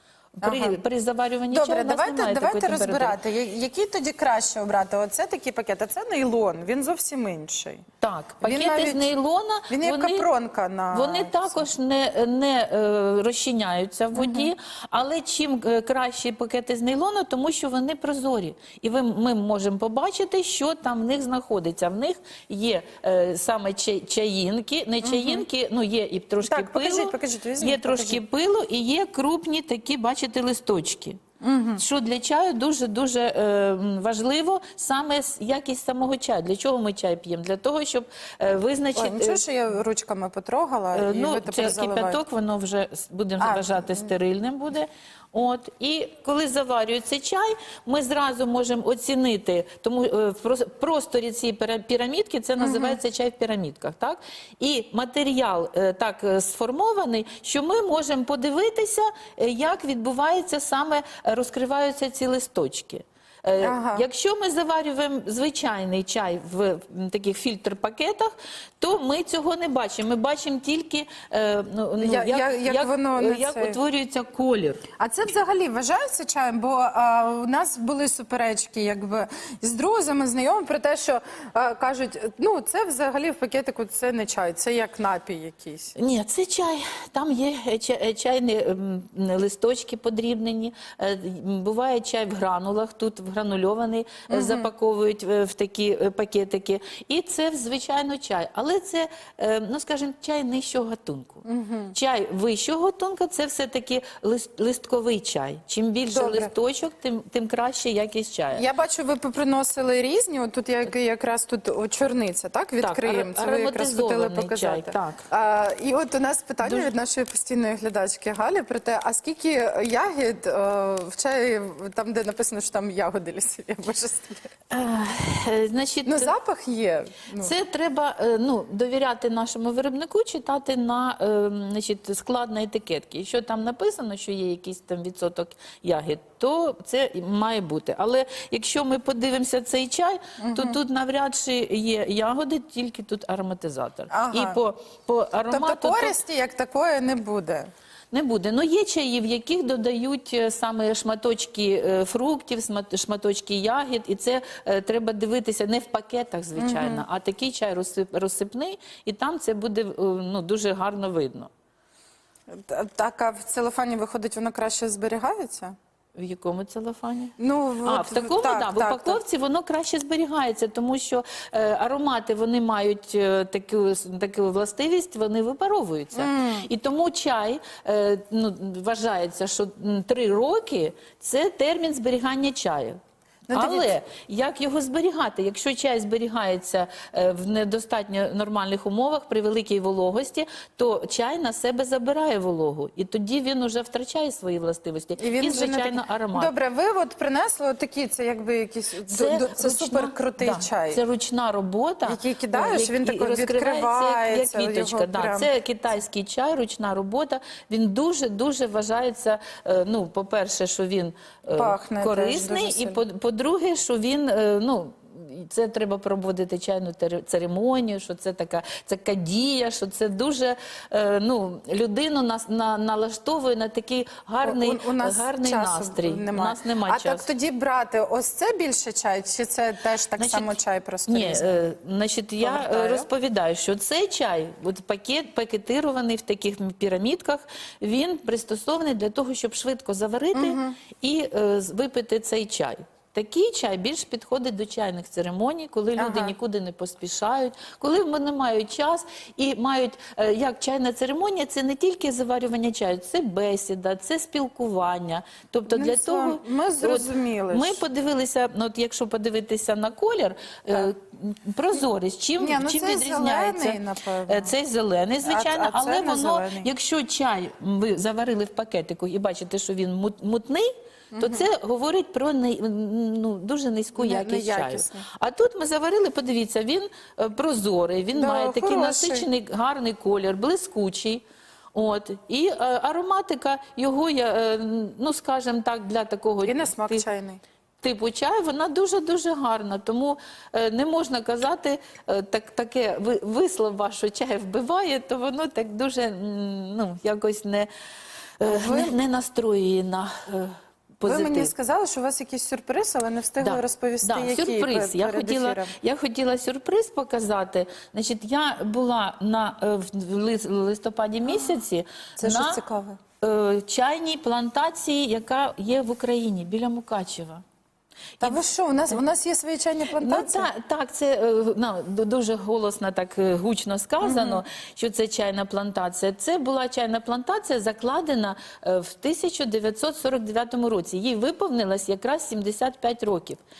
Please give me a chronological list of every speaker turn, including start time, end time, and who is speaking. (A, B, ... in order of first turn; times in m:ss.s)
0:00.4-0:03.2 A
0:00.4-0:00.8 B
0:01.5-0:07.8 B
0:08.0-0:10.3 A
0:08.4-0:09.1 B
0:09.7-0:11.7 B
0:10.9-0:31.2 A
0:14.1-0:14.5 B
0:25.0-0:25.4 B
0:26.4-0:28.2 B
0:31.4-0:31.8 B
0:31.8-0:39.4 A
0:39.0-0:42.2 B
0:40.9-1:14.8 A
0:43.4-0:44.1 B
0:52.6-0:53.0 B
1:03.6-1:04.0 B
1:12.0-1:13.8 B
1:15.0-1:25.9 B
1:26.0-1:48.6 A
1:34.3-1:34.7 B
1:41.4-1:41.9 B
1:46.1-1:46.5 B
1:48.5-2:04.5 B
1:52.8-1:55.2 A
1:56.6-1:56.9 A
2:04.7-2:06.3 A
2:06.0-2:07.5 B
2:07.4-2:26.2 A
2:20.4-2:20.8 B
2:24.1-2:24.6 B
2:25.5-2:27.7 B
2:28.1-2:41.5 A
2:36.6-2:37.0 B
2:42.5-2:45.7 B
2:46.2-2:47.3 A
2:47.4-2:49.2 B
2:47.8-3:03.0 A
2:56.1-2:56.7 B
3:03.5-3:03.9 B
3:03.5-3:16.5 A
3:15.2-3:21.0 B
3:19.1-3:47.3 A
3:22.0-3:25.5 B
3:31.5-3:33.0 B
3:44.4-3:51.5 B
3:50.2-4:41.2 A
3:52.4-3:53.1 B
4:00.3-4:00.8 B
4:06.0-4:06.3 B
4:15.7-4:17.8 B
4:22.4-4:24.5 B
4:25.2-4:26.7 B
4:31.1-4:31.5 B
4:34.0-4:35.0 B
4:38.2-4:39.3 B
4:41.7-4:47.0 A
4:46.4-4:47.4 B
4:47.8-4:57.7 A
4:58.4-5:01.5 A
4:58.4-4:59.0 B
5:01.0-5:05.7 B
5:03.4-5:12.6 A
5:11.3-5:11.6 B
5:12.2-5:13.0 B
5:13.2-5:17.4 A
5:18.2-5:19.0 A
5:18.2-5:20.5 B
5:20.0-5:33.4 A
5:24.0-5:24.4 B